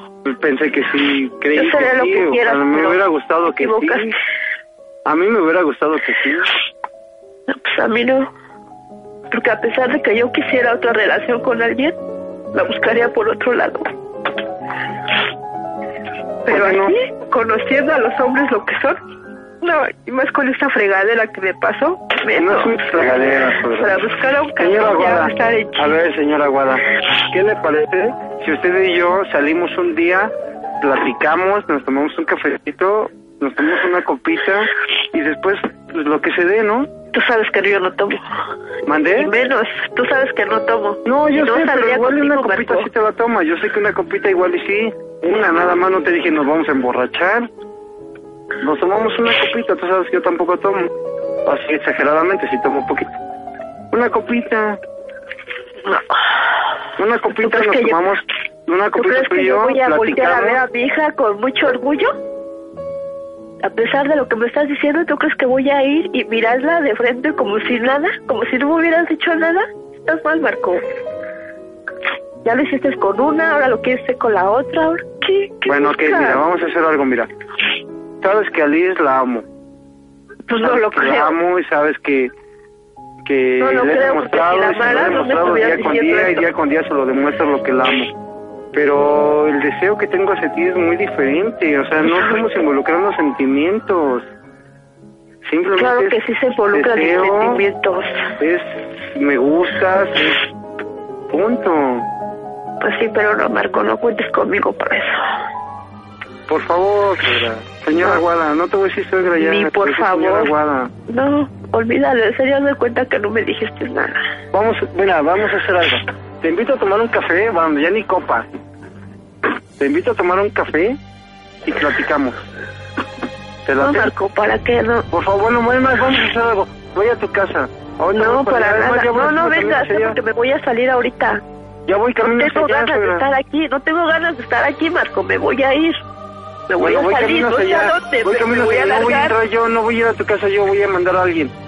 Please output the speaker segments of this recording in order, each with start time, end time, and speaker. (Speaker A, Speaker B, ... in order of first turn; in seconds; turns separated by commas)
Speaker A: 0.2-4.1, Speaker B: 1.5-4.1, Speaker A: 5.0-6.5, Speaker B: 7.5-8.3, Speaker B: 9.3-11.9, Speaker B: 12.5-13.8, Speaker B: 16.4-19.0, Speaker A: 16.5-16.9, Speaker B: 19.6-22.8, Speaker A: 22.4-23.9, Speaker B: 23.8-25.9, Speaker A: 24.6-36.9, Speaker B: 37.1-38.2, Speaker A: 38.9-39.3, Speaker B: 39.1-42.9, Speaker A: 41.0-47.5, Speaker A: 48.6-50.9, Speaker A: 51.5-53.1, Speaker A: 53.9-54.8, Speaker A: 57.0-60.6, Speaker B: 57.4-58.0, Speaker B: 58.9-62.1, Speaker B: 63.6-70.8, Speaker B: 72.4-76.4, Speaker A: 75.7-77.3, Speaker A: 78.2-79.4, Speaker B: 80.5-81.3, Speaker A: 80.6-82.3, Speaker A: 83.2-88.1, Speaker B: 83.6-86.5, Speaker A: 88.7-94.2, Speaker A: 95.4-96.2, Speaker B: 95.8-98.1, Speaker A: 96.7-97.6, Speaker A: 98.4-100.4, Speaker A: 101.3-102.0, Speaker B: 102.8-105.2, Speaker A: 106.5-110.9, Speaker B: 109.4-110.5, Speaker B: 111.1-114.2, Speaker A: 114.5-118.5, Speaker A: 119.8-121.0, Speaker A: 121.6-122.4, Speaker A: 123.7-124.1, Speaker B: 123.8-125.1, Speaker A: 125.1-130.2, Speaker B: 128.1-131.4, Speaker A: 131.9-133.2, Speaker B: 132.2-135.9, Speaker B: 136.7-139.4, Speaker A: 136.8-141.5